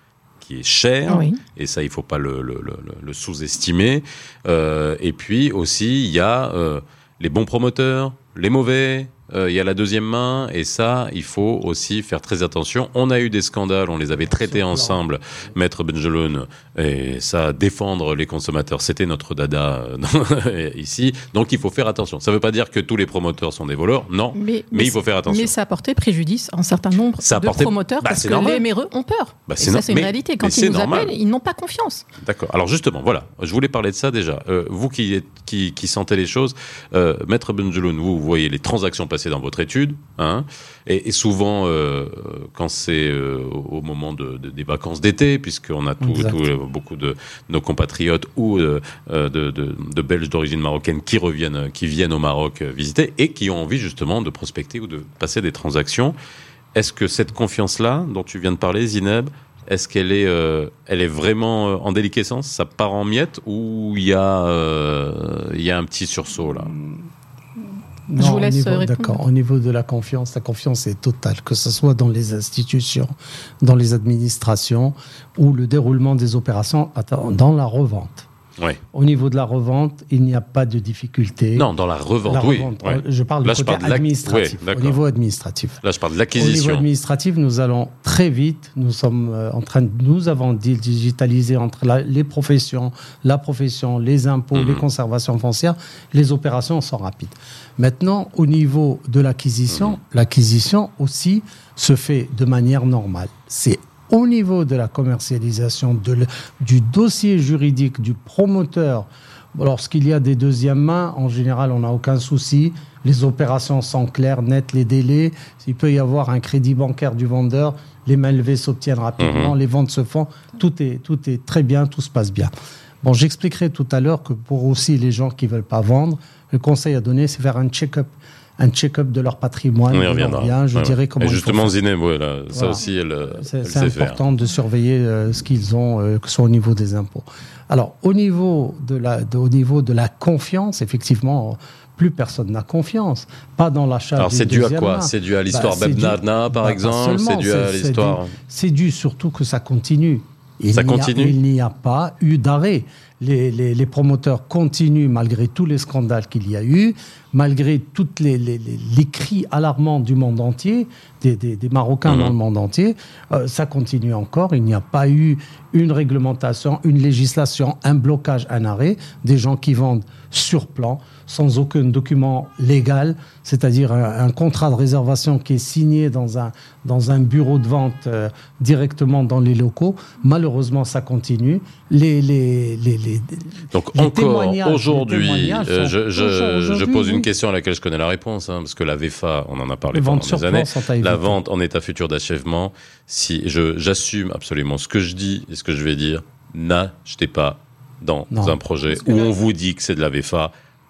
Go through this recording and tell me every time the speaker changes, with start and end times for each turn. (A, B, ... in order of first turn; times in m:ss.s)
0:00.4-0:25.5 A
0:01.1-0:01.4 B
0:14.2-0:15.5 C
0:24.4-0:32.0 B
0:27.2-0:28.6 A
0:29.5-0:31.1 A
0:32.2-0:56.2 A
0:46.0-0:46.4 C
0:56.8-1:06.7 A
1:06.7-1:07.0 C
1:08.1-1:18.3 C
1:08.2-1:09.2 B
1:18.9-1:21.7 C
1:21.6-1:25.0 A
1:22.3-1:25.8 C
1:25.8-1:26.8 A
1:26.3-2:11.8 C
1:34.6-1:34.8 A
1:59.2-1:59.5 A
2:09.9-2:14.2 A
2:12.5-3:07.3 C
2:24.2-2:28.3 A
2:30.7-2:31.4 A
2:42.1-2:42.3 A
3:03.7-3:20.5 A
3:09.9-3:11.4 C
3:18.3-3:18.6 C
3:18.9-3:19.4 B